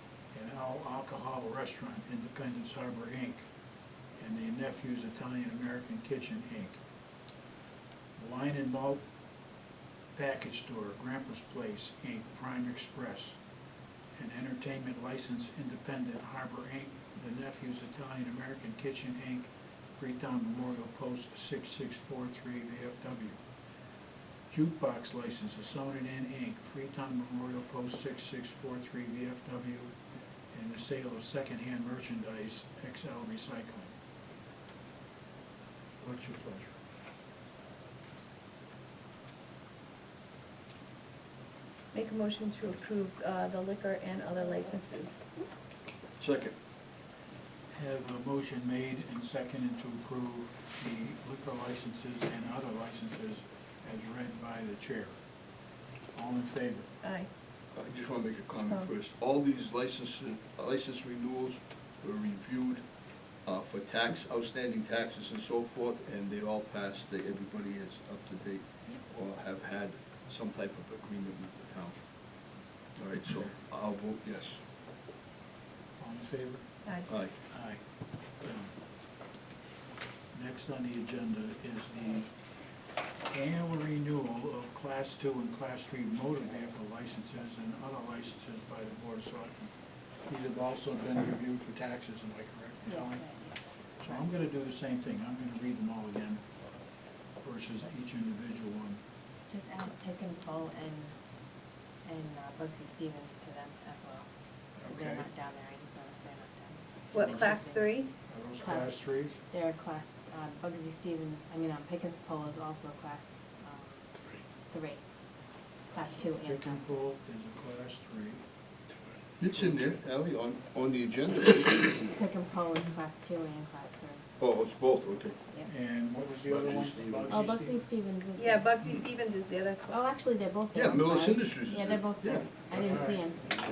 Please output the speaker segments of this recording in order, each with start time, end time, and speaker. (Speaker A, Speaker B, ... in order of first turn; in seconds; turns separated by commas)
Speaker A: 0.3-3.5, Speaker A: 4.2-6.8, Speaker A: 8.2-9.0, Speaker A: 10.1-13.4, Speaker A: 14.2-23.4, Speaker A: 24.5-29.9, Speaker A: 30.5-33.9, Speaker A: 36.0-36.8, Speaker B: 41.9-45.2, Speaker C: 46.2-46.5, Speaker A: 47.7-55.2, Speaker A: 56.1-56.9, Speaker B: 57.0-57.3, Speaker C: 57.7-62.9, Speaker C: 63.5-72.0, Speaker C: 73.0-74.6, Speaker A: 76.0-76.7, Speaker C: 77.1-77.3, Speaker A: 77.5-77.8, Speaker A: 78.4-78.7, Speaker A: 80.3-82.3, Speaker A: 83.3-89.7, Speaker A: 90.3-93.2, Speaker D: 92.9-93.6, Speaker A: 94.0-96.4, Speaker A: 97.4-99.0, Speaker D: 99.5-101.1, Speaker D: 102.0-104.3, Speaker A: 104.8-105.3, Speaker D: 104.8-108.0, Speaker B: 107.1-108.1, Speaker A: 108.3-109.4, Speaker D: 108.6-114.1, Speaker D: 114.7-115.0, Speaker D: 115.9-117.0, Speaker A: 116.4-118.4, Speaker C: 119.4-122.2, Speaker D: 122.1-124.2, Speaker C: 124.4-125.4, Speaker A: 125.7-127.8, Speaker C: 126.5-127.5, Speaker D: 127.3-128.7, Speaker B: 128.4-130.0, Speaker D: 129.9-133.5, Speaker C: 130.7-132.5, Speaker A: 132.7-133.2